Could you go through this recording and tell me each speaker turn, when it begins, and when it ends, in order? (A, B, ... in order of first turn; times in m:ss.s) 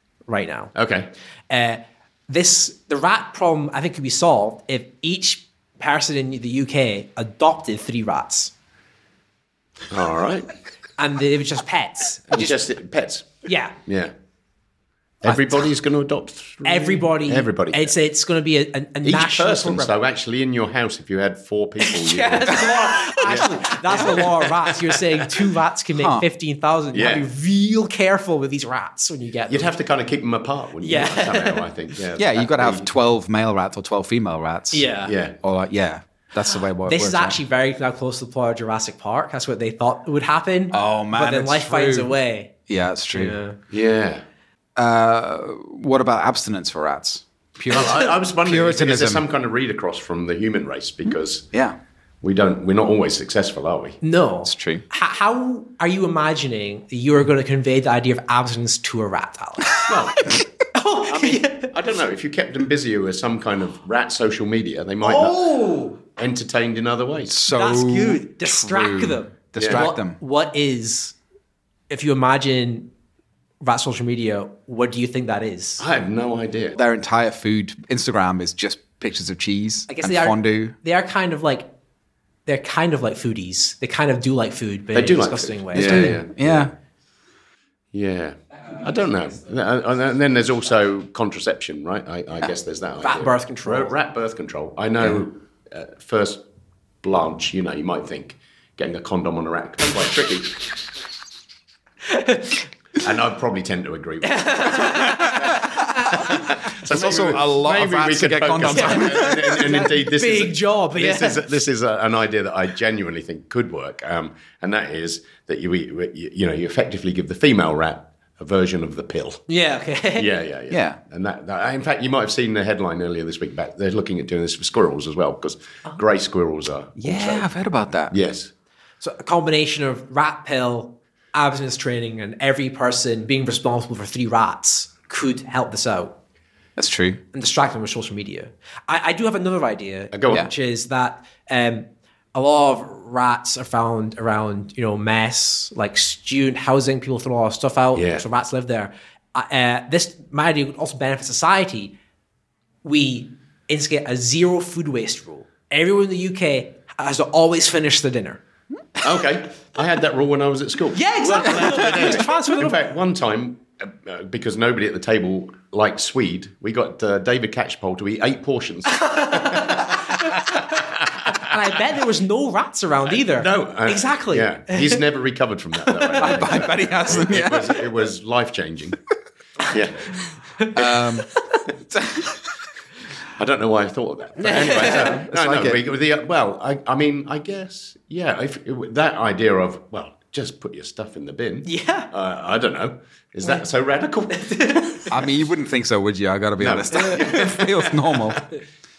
0:00.3-0:00.7 A
0:00.7-0:01.1 B
0:01.5-0:08.5 A
0:09.9-0:10.5 B
0:11.0-0:12.6 A
0:12.3-0:14.1 B
0:13.4-0:13.8 A
0:15.2-0:18.0 B
0:16.6-0:19.9 A
0:19.0-0:25.4 B
0:21.8-0:29.7 A
0:26.0-0:26.2 C
0:26.9-0:27.3 B
0:29.5-0:32.9 B
0:30.8-0:31.7 A
0:32.2-0:34.9 C
0:34.7-0:35.1 A
0:35.0-0:35.4 B
0:35.4-0:37.4 C
0:36.8-0:42.6 A
0:40.7-0:42.1 C
0:42.7-0:43.4 C
0:43.1-0:43.6 A
0:43.7-0:44.2 B
0:44.8-0:49.2 C
0:47.7-0:51.5 B
0:52.2-0:54.0 B
0:54.0-0:59.8 A
0:54.4-0:54.8 C
0:59.8-1:00.4 B
1:00.7-1:01.7 A
1:01.1-1:07.4 B
1:05.0-1:06.0 A
1:07.3-1:10.2 C
1:07.5-1:11.1 A
1:09.6-1:09.9 B
1:11.9-1:12.9 A
1:13.6-1:15.8 A
1:15.8-1:16.8 B
1:16.7-1:20.8 C
1:19.9-1:21.7 A
1:22.4-1:26.2 A
1:24.9-1:26.7 B
1:25.7-1:26.7 C
1:27.9-1:36.4 B
1:33.0-1:33.9 A
1:37.0-1:40.7 B
1:42.0-1:42.7 A
1:43.0-1:59.4 B
1:44.2-1:45.4 A
1:45.2-1:45.6 C
1:46.2-1:49.6 C
1:48.7-1:51.4 A
1:59.5-2:00.3 A
2:00.1-2:07.5 B
2:00.7-2:01.0 C
2:07.0-2:08.1 C
2:08.1-2:08.5 B
2:09.0-2:16.2 A
2:16.8-2:17.2 C
2:17.3-2:32.0 A
2:20.1-2:20.5 B
2:27.9-2:28.2 B
2:32.8-2:38.4 A
2:39.0-2:51.9 B
2:40.9-2:42.8 A
2:49.0-2:50.7 A
2:51.3-2:55.0 A
2:53.1-2:59.0 B
2:56.2-2:57.8 C
2:59.6-3:01.1 B
3:00.7-3:01.3 C
3:01.9-3:02.4 C
3:03.3-3:15.1 B
3:04.4-3:05.2 A
3:04.8-3:05.8 C
3:11.6-3:12.1 A
3:14.3-3:15.0 A
3:15.1-3:18.4 C
3:16.6-3:18.4 B